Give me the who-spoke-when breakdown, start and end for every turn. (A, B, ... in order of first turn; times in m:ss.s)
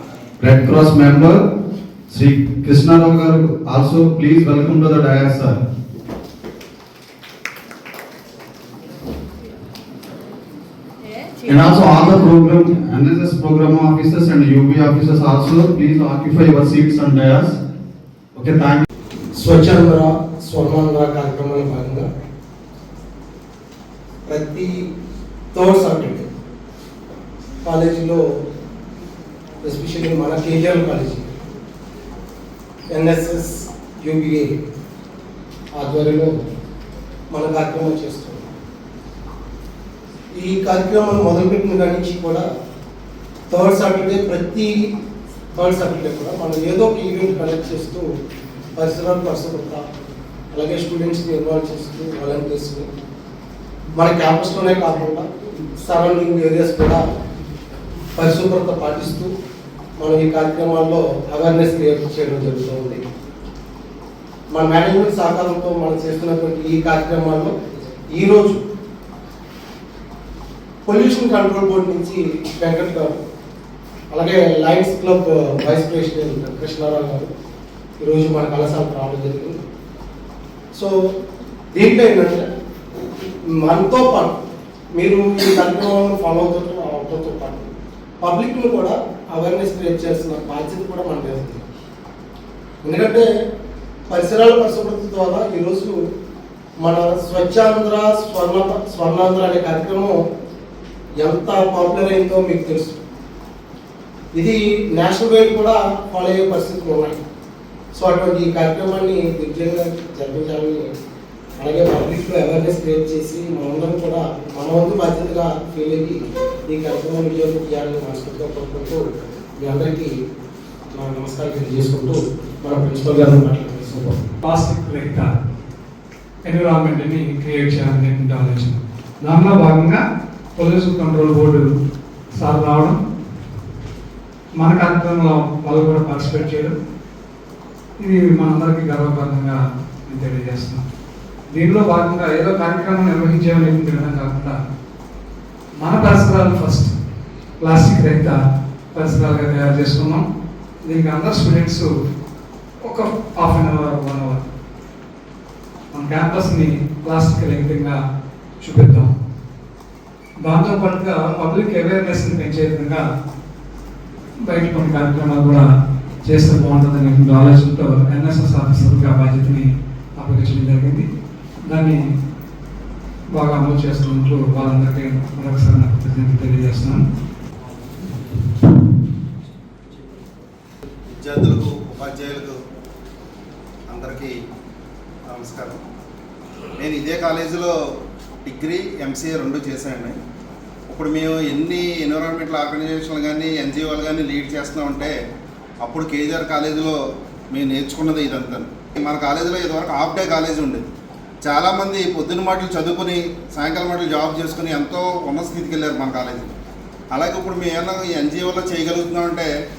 0:00.4-0:01.4 A
0:02.1-0:05.6 A
0:11.4-0:17.6 A
0:18.4-0:18.9 A
0:19.4-0:22.0 B
0:24.3-0:24.7 B
0:25.6-0:26.1 B
0:27.7-0:28.2 B
0:29.8-0:31.1 B
0:34.1-0:34.4 B
0:35.8-0:36.3 B
0:37.3-0:38.3 B
0:40.4-0:42.4 B
0:43.5-0:44.6 B
0:45.7-0:48.0 B
0:49.0-0:49.4 C
0:50.9-0:51.5 C
0:51.5-0:52.6 B
0:54.1-0:54.4 C
0:54.4-0:55.2 B
0:55.8-0:56.3 C
1:00.0-1:00.9 B
1:01.3-1:01.8 C
1:01.4-1:02.7 B
1:04.6-1:05.0 C
1:04.7-1:06.4 B
1:10.9-1:12.8 B
1:11.1-1:11.5 C
1:14.1-1:17.2 B
1:18.3-1:19.4 B
1:21.7-1:22.3 B
1:23.7-1:24.2 B
1:25.8-1:27.5 B
1:28.2-1:28.8 B
1:29.7-1:30.7 B
1:34.3-1:35.9 B
1:37.3-1:40.0 B
1:41.4-1:42.5 B
1:45.0-1:46.7 B
1:48.1-1:50.8 B
1:51.8-1:56.2 B
1:57.0-1:59.0 B
1:59.6-1:59.9 B
2:01.0-2:04.0 B
2:04.4-2:05.3 D
2:06.4-2:10.0 D
2:10.6-2:11.7 D
2:12.4-2:13.0 D
2:14.6-2:16.7 D
2:18.0-2:20.8 D
2:21.5-2:24.6 D
2:25.8-2:26.9 D
2:27.6-2:28.4 D
2:28.9-2:30.2 D
2:30.8-2:31.9 D
2:32.8-2:34.4 D
2:35.9-2:38.0 D
2:38.6-2:39.1 D
2:40.4-2:43.0 D
2:44.5-2:45.7 D
2:46.2-2:51.1 D
2:51.7-2:52.0 D
2:53.3-2:57.0 D
3:01.1-3:02.6 C
3:03.9-3:04.3 C
3:05.3-3:05.8 C
3:06.8-3:07.7 C
3:08.4-3:10.2 C
3:10.9-3:15.2 C
3:15.8-3:17.0 C
3:17.5-3:20.8 C
3:21.4-3:26.6 C
3:27.1-3:29.5 C